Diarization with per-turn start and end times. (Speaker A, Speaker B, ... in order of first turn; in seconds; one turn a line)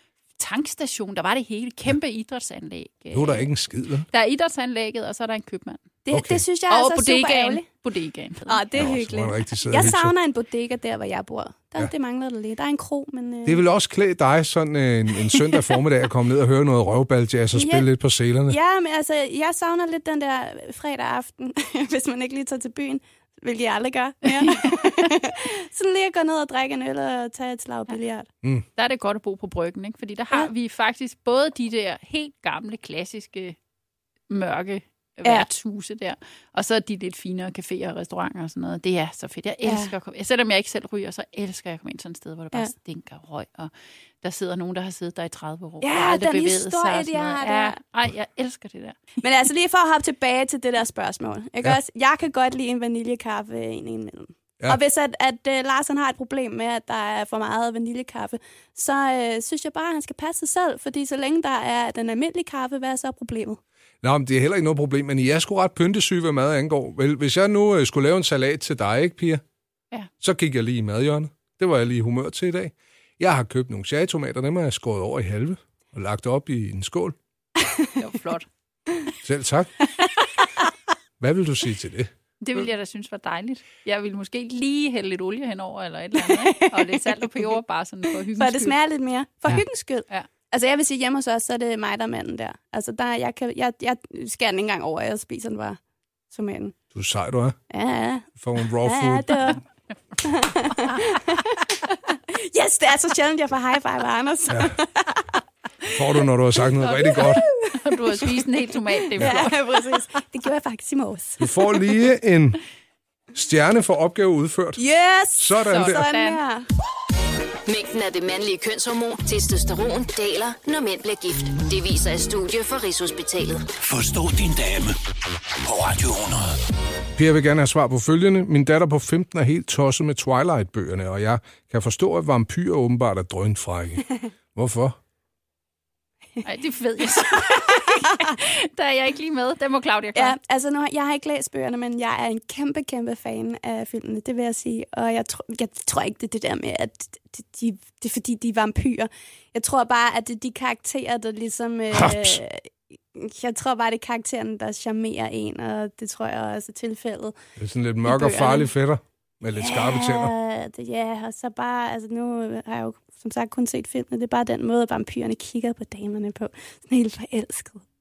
Speaker A: 0.4-3.5
Speaker B: 3.1-4.1
Speaker A: 4.1-5.8
Speaker C: 6.0-7.7
Speaker B: 6.1-6.5
Speaker A: 6.7-8.7
Speaker C: 8.5-13.6
Speaker B: 8.7-10.1
Speaker B: 13.5-18.6
Speaker C: 17.5-17.9
Speaker C: 18.5-28.3
Speaker A: 24.2-25.1
Speaker A: 28.8-33.6
Speaker A: 34.3-49.0
Speaker C: 39.6-39.9
Speaker C: 45.8-47.8
Speaker C: 49.2-63.6
Speaker B: 64.0-69.4
Speaker B: 70.2-77.2
Speaker A: 78.0-78.5
Speaker B: 79.2-79.7
Speaker B: 81.2-82.1
Speaker A: 82.4-88.8
Speaker C: 86.3-87.1
Speaker C: 88.3-95.8
Speaker C: 96.3-96.8
Speaker B: 96.9-97.6
Speaker C: 97.7-99.6
Speaker B: 98.4-99.6
Speaker C: 100.2-105.4
Speaker B: 104.5-104.8
Speaker B: 106.0-107.5
Speaker A: 106.8-110.0
Speaker C: 107.0-108.4
Speaker C: 109.1-111.5
Speaker B: 109.2-109.5
Speaker B: 111.4-112.6
Speaker B: 113.3-114.8
Speaker C: 114.8-116.7
Speaker B: 115.4-116.1
Speaker A: 115.7-116.4
Speaker D: 117.7-123.7
Speaker E: 123.8-125.0
Speaker E: 125.6-126.6
Speaker B: 127.2-135.0
Speaker A: 136.4-140.4
Speaker C: 140.2-157.3
Speaker B: 151.9-152.4
Speaker B: 157.6-160.3
Speaker C: 158.1-158.7
Speaker C: 159.6-167.8